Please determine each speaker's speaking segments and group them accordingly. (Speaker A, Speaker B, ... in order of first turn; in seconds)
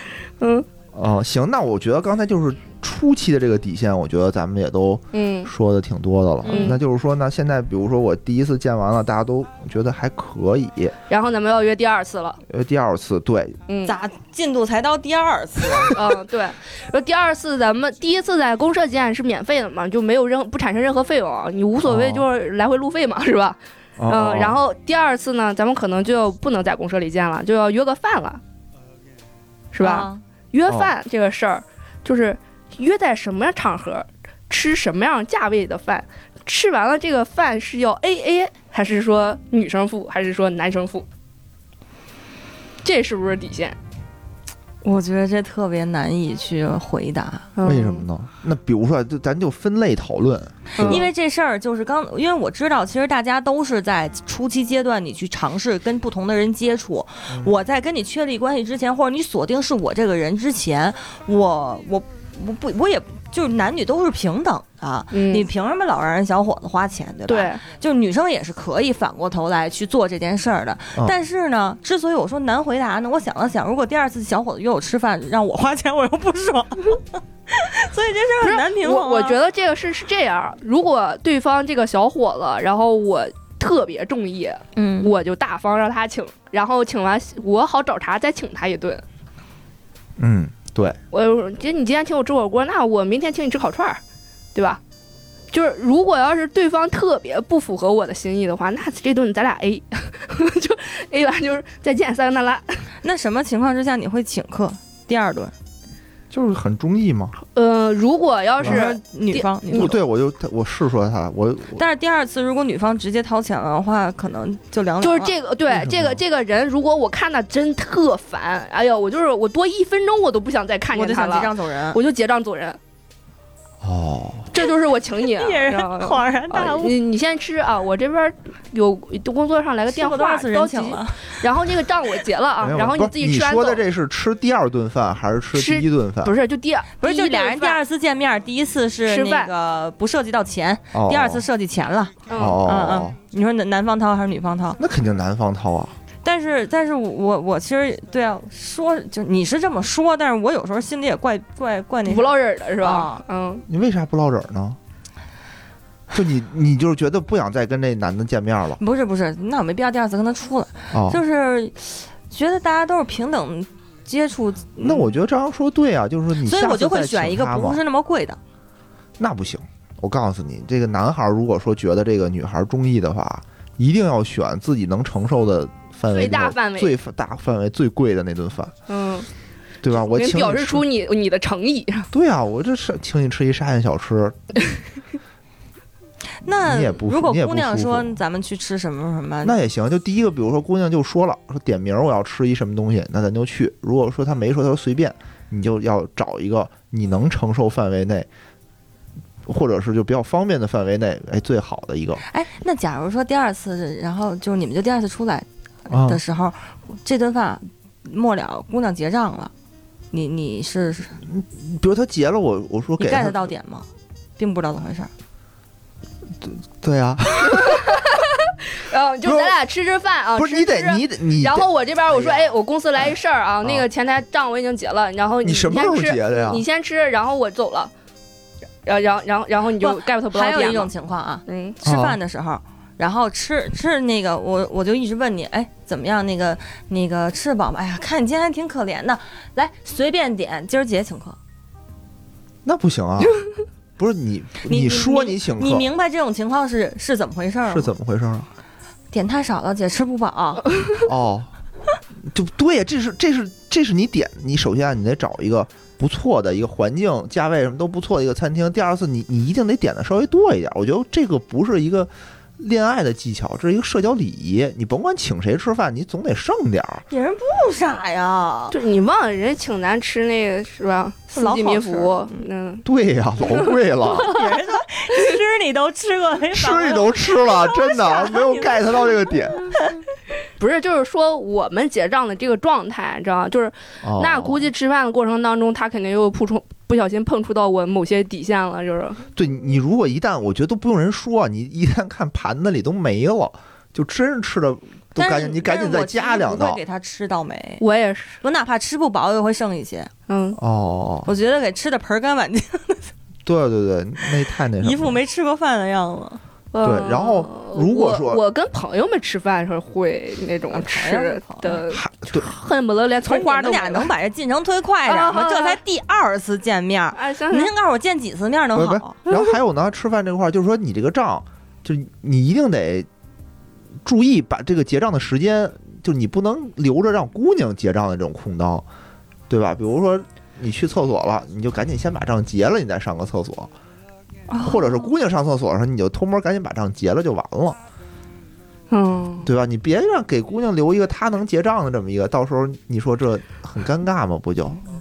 Speaker A: 0.4-0.7, 5.1-5.5, 6.5-6.8, 11.1-12.4, 13.7-14.0, 15.9-28.4, 29.7-41.1, 42.8-43.8, 47.6-48.1, 50.8-51.1, 65.1-65.5, 67.3-67.6, 78.4-89.0, 91.1-94.0, 94.5-94.8, 95.5-102.9, 107.5-110.0, 115.0-122.8, 124.5-133.8, 135.5-137.8, 139.1-139.5, 142.3-142.6, 152.1-153.6, 176.1-177.0, 178.9-179.3, 179.9-182.1, 217.5-227.9, 228.9-230.9, 231.5-231.8, 268.7-272.9, 273.4-274.5, 280.6-289.2, 297.8-298.4, 300.3-300.6, 306.7-314.1, 315.1-315.8, 317.1-317.7, 338.9-339.5
Speaker B: 0.9-10.9, 12.5-13.6, 21.9-22.2, 24.0-24.6, 47.6-51.1, 90.2-91.0, 106.3-107.4, 108.6-108.9, 109.7-111.8, 115.7-116.2, 123.8-124.5, 132.6-136.3, 140.9-141.4, 142.4-143.2, 144.8-145.9, 153.7-154.8, 156.1-158.8, 160.9-161.2, 164.8-167.8, 169.2-178.7, 179.8-180.8, 182.1-184.5, 186.5-188.2, 189.4-198.3, 199.5-202.2, 205.9-206.2, 211.2-213.4, 216.4-218.0, 219.2-219.6, 220.4-222.5, 225.4-226.6, 231.8-232.2, 242.7-243.4, 244.0-245.9, 247.7-248.5, 251.0-251.5, 252.2-267.1, 272.9-274.4, 276.5-279.7, 284.0-284.7, 289.4-296.8, 300.6-301.3, 303.4-305.2, 306.8-308.4, 311.9-312.5, 318.8-323.1, 324.0-328.9, 329.5-333.7, 334.6-337.8, 339.4-344.8
Speaker C: 6.4-6.8, 13.8-16.0, 29.8-30.2, 44.8-47.5, 50.8-79.4, 84.8-85.1, 103.0-105.5, 108.6-110.0, 111.7-115.3, 120.9-122.0, 125.2-127.0, 129.9-131.4, 137.0-144.8, 146.2-153.2, 158.8-165.1, 166.4-168.4, 186.4-189.6, 202.3-209.5, 210.1-211.2, 213.0-213.9, 214.4-215.1, 229.8-241.4, 244.6-247.9, 249.1-250.7, 267.1-268.8, 271.3-272.5, 274.1-279.2, 295.2-297.8, 298.4-300.1, 301.2-303.1, 304.8-306.4, 310.7-311.8, 313.2-319.2, 334.5-335.1